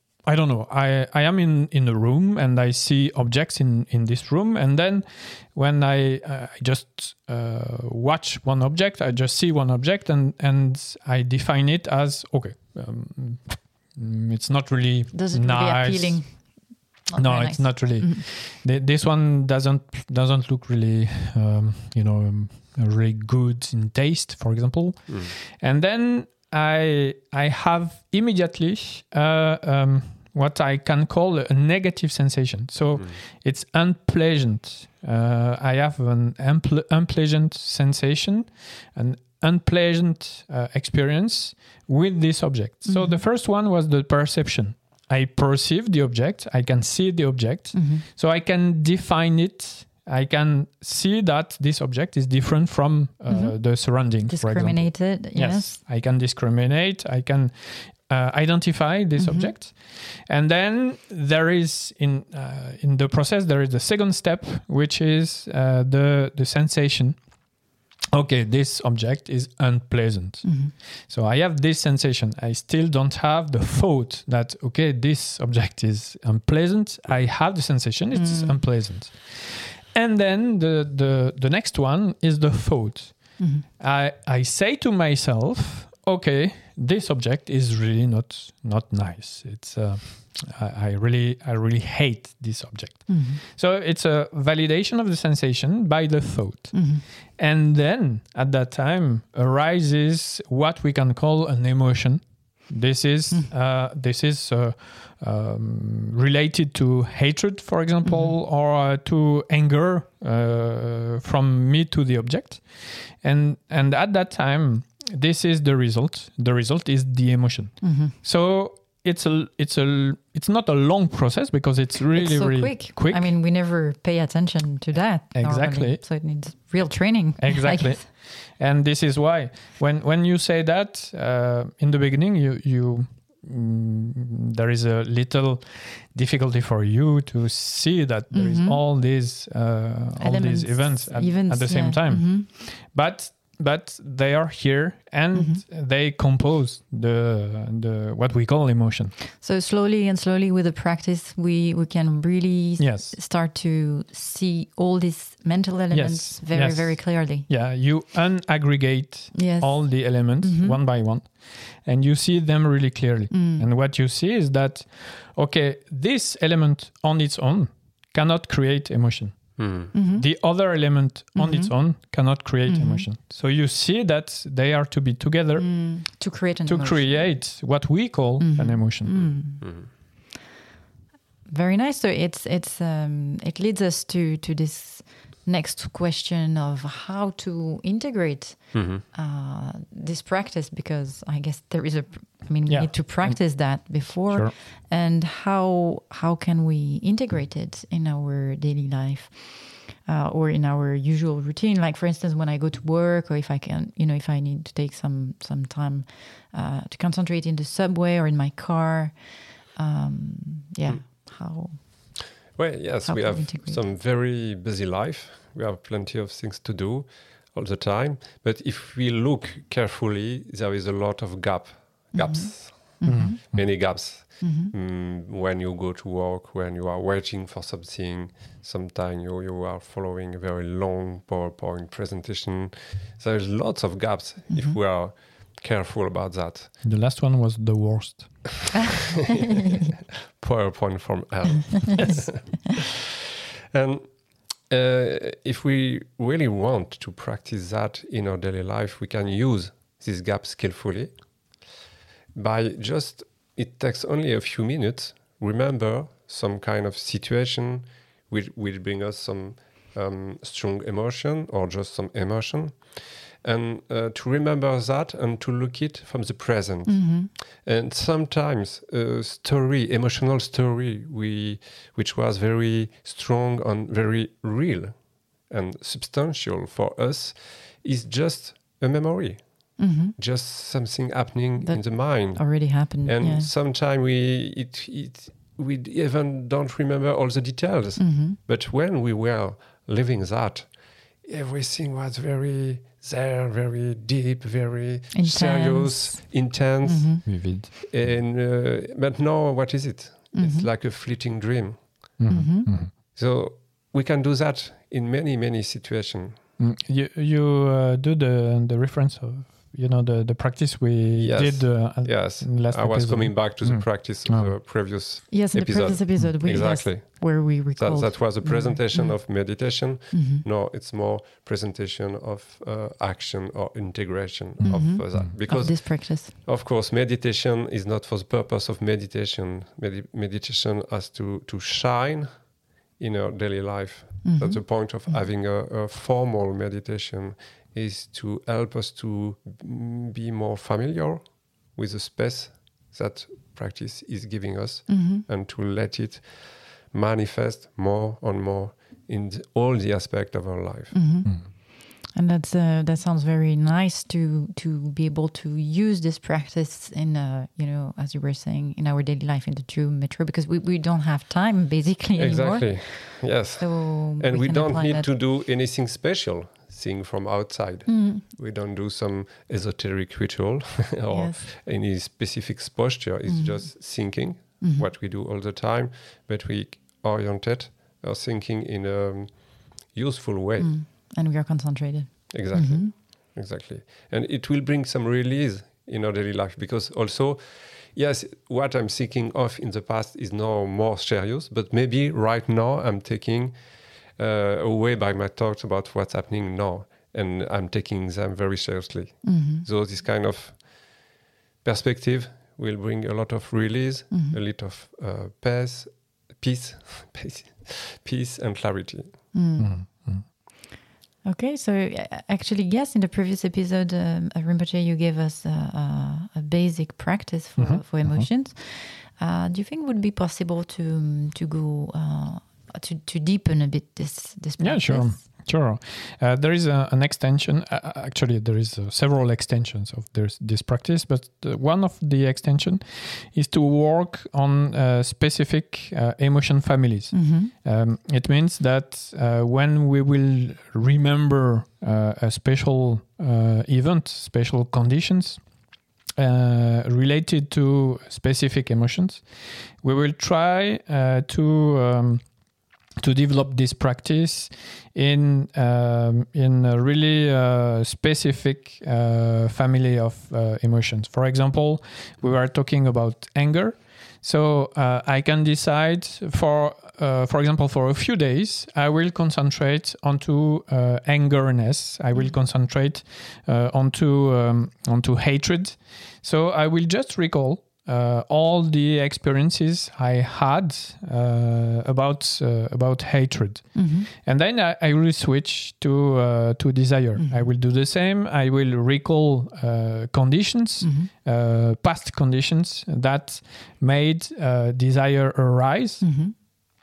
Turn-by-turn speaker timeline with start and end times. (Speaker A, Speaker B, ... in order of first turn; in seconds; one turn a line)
Speaker A: 0.2-67.2
Speaker B: 15.1-18.2
Speaker B: 42.9-43.2
Speaker B: 47.7-48.0
Speaker B: 53.3-55.8
Speaker B: 59.2-59.5
Speaker A: 68.1-123.3
Speaker B: 70.4-70.7
Speaker B: 78.1-78.6
Speaker B: 83.4-83.6
Speaker B: 93.1-93.4
Speaker B: 96.7-97.0
Speaker B: 108.0-108.4
Speaker B: 117.8-118.1
Speaker B: 122.1-128.0
Speaker A: 125.3-126.0
Speaker A: 127.4-149.2
Speaker B: 138.3-138.8
Speaker B: 140.2-142.5
Speaker B: 145.3-145.6
Speaker B: 149.3-157.5
Speaker A: 152.8-153.1
Speaker A: 155.9-179.3
Speaker B: 159.3-160.8
Speaker B: 163.3-163.7
Speaker C: 169.6-169.9
Speaker B: 169.9-170.3
Speaker B: 171.3-171.8
Speaker B: 172.7-173.1
Speaker B: 175.6-177.5
Speaker B: 178.4-179.9
Speaker C: 179.2-179.9
Speaker B: 181.4-212.3
Speaker C: 188.7-189.0
Speaker A: 192.7-194.5
Speaker C: 212.5-236.7
Speaker B: 213.0-213.8
Speaker B: 222.1-224.7
Speaker A: 223.0-223.7
Speaker B: 234.5-234.8
Speaker A: 236.8-238.9
Speaker C: 240.4-242.9
Speaker C: 243.7-251.6
Speaker C: 252.3-302.2
Speaker B: 266.9-267.3
Speaker B: 279.8-280.1
Speaker B: 281.6-283.5
Speaker B: 288.0-288.4
Speaker B: 295.1-297.2
Speaker A: 297.2-297.7
Speaker B: 300.3-300.7
Speaker A: 302.2-302.9
Speaker B: 302.3-302.7
Speaker C: 302.9-306.4
Speaker A: 306.6-314.5
Speaker C: 311.1-350.9
Speaker B: 315.3-320.4
Speaker A: 324.6-325.3
Speaker B: 324.7-326.3
Speaker B: 334.2-335.2
Speaker B: 344.9-345.2
Speaker B: 350.9-365.1
Speaker C: 362.1-380.8
Speaker B: 367.9-368.2
Speaker B: 371.1-371.4
Speaker B: 373.3-374.9
Speaker B: 380.6-382.9
Speaker C: 382.3-401.1
Speaker B: 399.2-399.6
Speaker C: 401.6-409.2
Speaker B: 404.1-404.4
Speaker B: 409.3-410.4
Speaker A: 409.6-410.2
Speaker B: 411.2-425.2
Speaker A: 417.6-418.3
Speaker A: 424.6-445.4
Speaker B: 437.1-437.5
Speaker A: 446.1-452.2
Speaker A: 453.0-496.2
Speaker B: 483.7-484.1
Speaker B: 487.2-487.5
Speaker B: 490.8-491.1
Speaker B: 496.0-496.3